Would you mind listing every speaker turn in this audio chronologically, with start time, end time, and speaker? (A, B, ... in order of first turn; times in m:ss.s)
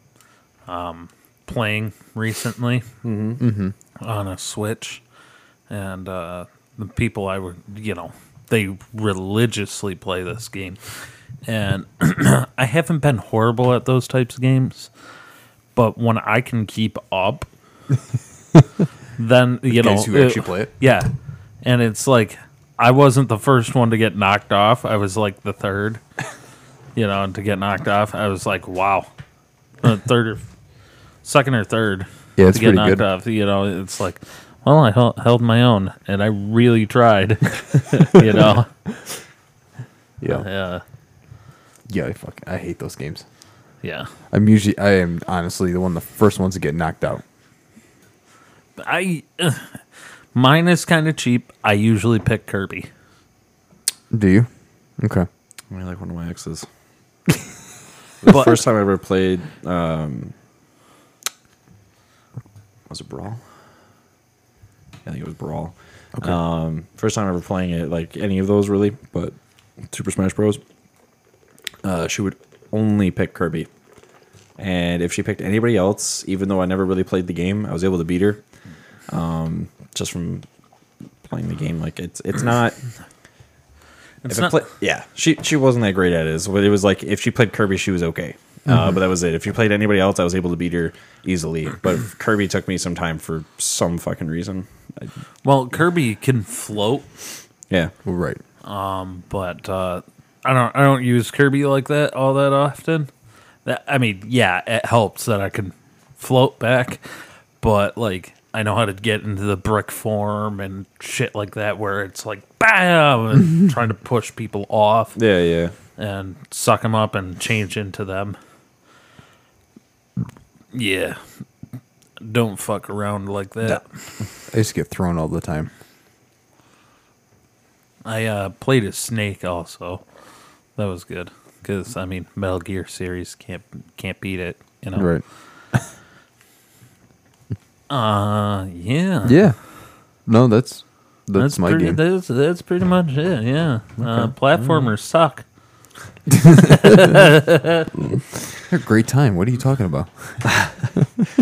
0:00.7-0:02.9 A
0:03.0-0:03.4 B
0:03.4-0:03.8 C
0:04.0-0:05.0 A
0:05.7-0:10.8 A
0:11.5-0:14.9 A
0:15.8-0:17.5 A
0:19.2-0:21.1 A
0:19.7-0:20.7 C
0:21.6-0:26.0 A
0:27.0-0:29.1 A
0:29.8-0:30.4 A
0:31.2-0:38.7 A
0:32.4-0:33.0 C
0:40.2-0:40.5 C
0:40.2-0:40.8 A
0:41.9-0:43.2 C
0:43.8-0:44.1 A
0:44.3-0:47.2 C
0:48.8-0:49.8 A
0:50.3-0:52.9 A
0:54.1-0:55.3 C
0:55.7-0:56.7 B
0:58.2-1:00.3 B
0:58.2-0:58.6 A
1:02.9-1:03.4 B
1:05.1-1:09.4 B
1:09.9-1:10.6 B
1:11.8-1:13.7 B
1:14.6-1:18.4 B
1:19.1-1:20.4 B
1:21.2-1:22.8 B
1:24.2-1:24.5 A
1:24.2-1:35.1 B
1:28.7-1:29.0 C
1:35.4-1:37.1 A
1:38.0-1:38.4 C
1:38.6-1:43.1 A
1:43.6-1:47.0 A
1:47.6-1:55.2 A
1:55.2-1:55.7 B
1:56.0-1:58.4 A
2:00.7-2:01.2 A
2:02.2-2:03.8 A
2:04.5-2:05.7 C
2:08.0-2:10.0 A
2:10.8-2:15.1 A
2:15.0-2:15.2 C
2:17.9-2:19.4 A
2:19.2-2:19.6 C
2:20.3-2:22.0 C
2:21.4-2:25.4 A
2:24.0-2:24.9 B
2:26.3-2:27.1 C
2:26.6-2:27.9 A
2:28.5-2:31.2 C